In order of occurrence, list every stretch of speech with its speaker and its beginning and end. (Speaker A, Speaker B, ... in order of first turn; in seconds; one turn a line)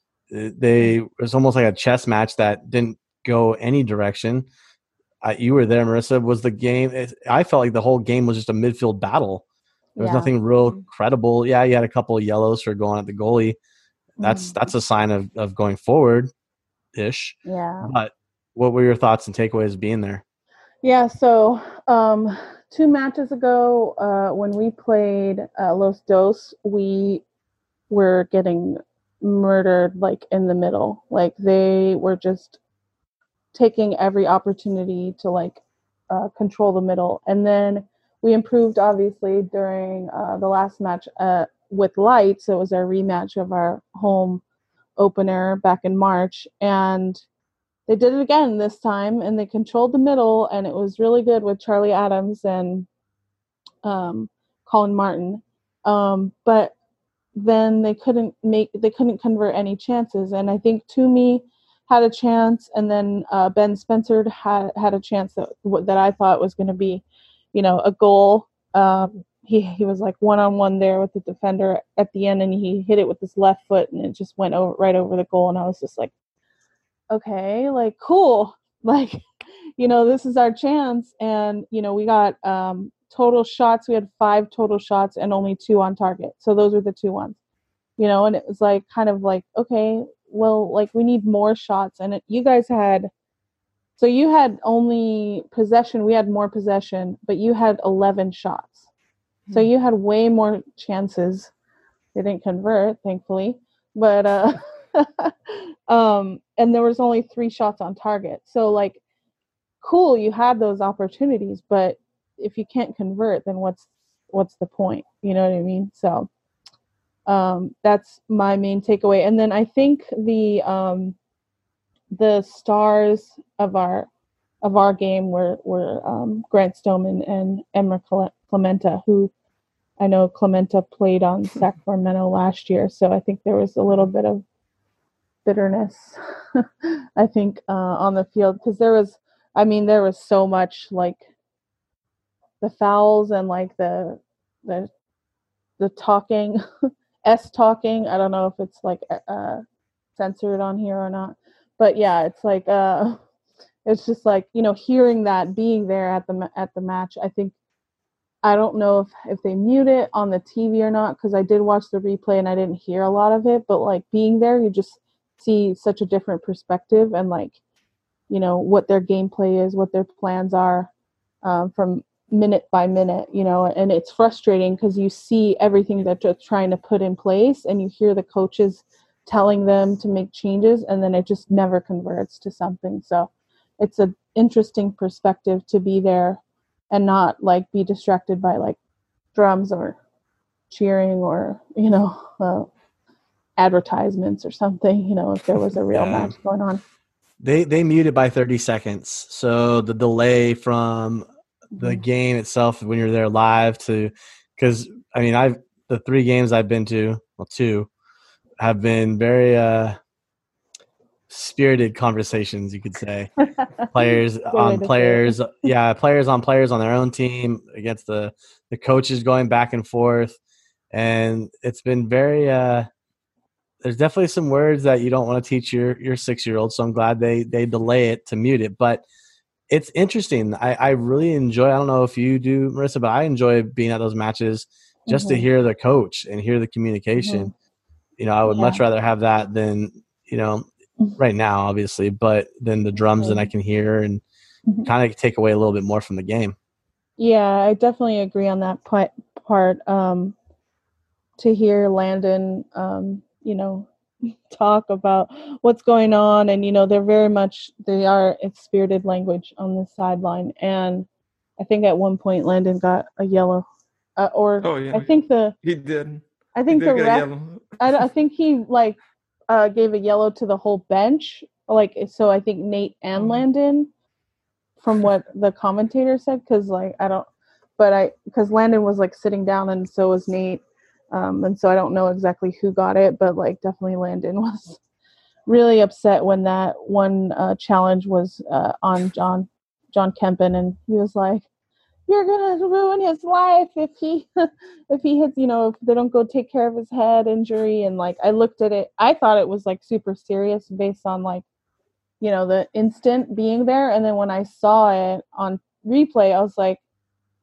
Speaker A: 0.3-4.5
Speaker A: 5.2-9.4
Speaker B: 10.0-10.3
Speaker A: 10.0-13.6
Speaker B: 14.2-14.7
Speaker A: 14.2-16.3
Speaker A: 16.9-20.2
Speaker B: 17.4-17.9
Speaker B: 20.8-27.2
Speaker B: 27.9-32.6
Speaker B: 33.5-44.4
Speaker B: 45.0-47.2
Speaker B: 47.9-52.9
Speaker B: 53.8-56.7
Speaker B: 57.3-76.1
Speaker B: 77.1-79.2
Speaker B: 79.8-87.4
Speaker B: 88.0-93.1
Speaker B: 94.0-98.8
Speaker B: 99.5-101.5
Speaker B: 102.1-109.0
Speaker B: 109.8-116.3
Speaker B: 117.3-121.2
Speaker B: 122.1-124.1
Speaker B: 124.6-129.3
Speaker B: 130.0-134.4
Speaker B: 135.4-141.2
Speaker B: 142.6-144.9
Speaker B: 145.8-146.6
Speaker B: 147.2-149.6
Speaker B: 150.2-153.2
Speaker B: 153.8-157.5
Speaker B: 158.4-167.6
Speaker B: 168.3-170.9
Speaker B: 171.4-188.8
Speaker B: 189.3-190.0
Speaker B: 190.7-192.7
Speaker B: 193.6-196.8
Speaker A: 195.9-196.3
Speaker A: 197.4-201.2
Speaker B: 201.8-202.0
Speaker A: 201.8-207.9
Speaker A: 208.6-210.0
Speaker A: 211.3-220.4
Speaker B: 214.5-215.3
Speaker A: 220.9-222.9
Speaker A: 223.8-229.0
Speaker A: 229.7-237.5
Speaker B: 235.1-235.4
Speaker B: 237.2-237.5
Speaker A: 238.2-244.2
Speaker B: 238.5-238.8
Speaker B: 243.2-243.5
Speaker A: 244.8-246.5
Speaker B: 247.2-250.3
Speaker B: 251.4-261.1
Speaker B: 261.6-263.6
Speaker B: 264.2-265.5
Speaker C: 264.6-265.1
Speaker C: 265.6-267.6
Speaker B: 266.6-267.3
Speaker B: 267.8-269.0
Speaker B: 269.5-273.9
Speaker C: 273.2-273.4
Speaker B: 274.8-277.3
Speaker B: 277.8-280.6
Speaker B: 281.1-284.8
Speaker B: 285.5-291.4
Speaker B: 292.1-301.4
Speaker B: 302.2-306.8